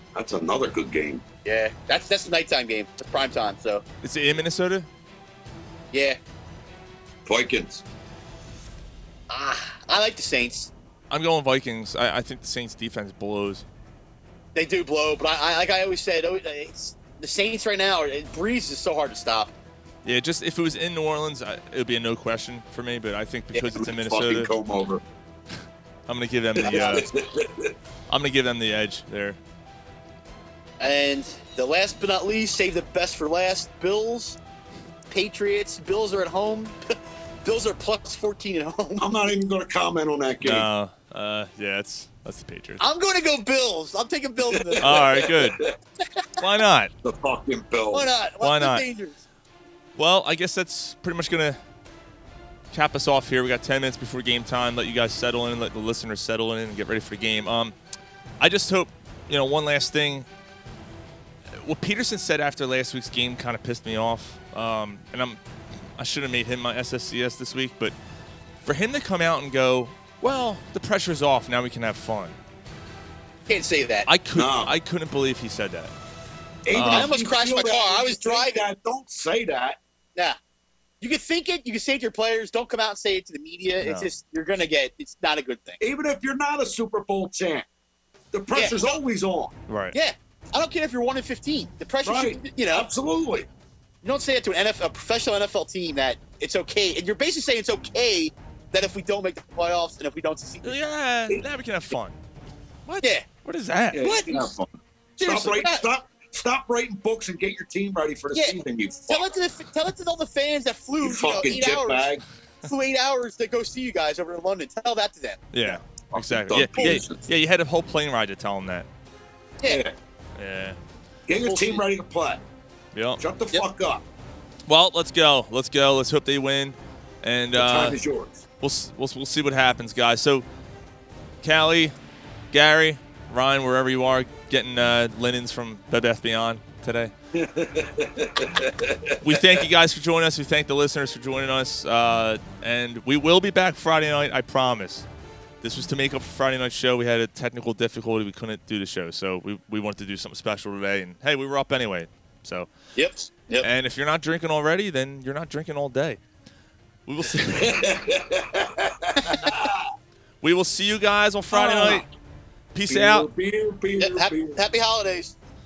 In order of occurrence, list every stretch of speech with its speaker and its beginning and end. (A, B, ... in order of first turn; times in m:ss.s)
0:00.1-0:01.2 A
0:01.4-0:03.8 B
0:04.0-0:04.9 C
0:05.9-0:06.2 B
0:07.2-0:07.8 A
0:09.3-0:10.7 B
0:11.1-0:13.6 C
0:14.5-0:19.5 B
0:20.0-0:24.5 C
0:23.7-0:25.0 A
0:26.1-0:27.0 C
0:26.6-0:27.7 A
0:26.6-0:27.0 B
0:28.1-0:29.4 C
0:30.8-0:34.4 B
0:35.1-0:39.1 B
0:39.0-0:40.7 A
0:40.4-0:42.8 C
0:42.8-0:45.1 B
0:44.4-0:45.7 A
0:44.8-0:45.6 C
0:46.4-0:46.9 C
0:47.0-0:48.1 A
0:47.9-0:49.2 B
0:48.4-0:48.8 C
0:50.0-0:51.6 C
0:52.7-0:57.7 C
0:58.4-1:00.3 C
1:01.5-1:05.4 C
1:06.0-1:07.9 C
1:08.6-1:12.4 C
1:13.5-1:14.1 B
1:14.1-1:15.9 C
1:14.4-1:14.7 A
1:16.6-1:19.8 A
1:16.7-1:17.1 C
1:16.9-1:18.6 B
1:21.0-1:25.8 B
1:23.8-1:24.1 C
1:25.8-1:27.6 A
1:28.3-1:29.5 A
1:28.5-1:29.0 B
1:29.7-1:30.0 C
1:29.9-1:32.9 B
1:32.0-1:33.5 A
1:34.0-1:40.8 B
1:40.6-1:42.2 C
1:42.8-1:44.0 C
1:43.9-1:49.3 A
1:44.0-1:44.4 B
1:45.2-1:45.8 B
1:48.3-1:52.1 B
1:51.0-1:52.2 A
1:52.6-1:55.8 B
1:55.5-1:58.9 C
1:56.1-1:57.2 A
1:56.7-1:57.0 B
1:59.6-1:59.9 A
2:00.4-2:00.8 C
2:01.3-2:02.4 A
2:01.4-2:01.8 B
2:02.9-2:03.2 C
2:03.2-2:04.0 A
2:04.7-2:08.0 C
2:07.5-2:08.4 A
2:08.6-2:10.4 C
2:11.4-2:11.9 C
2:12.5-2:17.1 C
2:17.3-2:19.6 A
2:19.2-2:25.0 C
2:25.6-2:32.7 C
2:33.0-2:33.7 B
2:33.6-2:36.2 C
2:37.1-2:37.8 C
2:37.5-2:39.9 A
2:40.4-2:42.0 C
2:41.5-2:42.0 A
2:42.7-2:43.3 C
2:42.9-2:44.6 A
2:44.0-2:45.3 B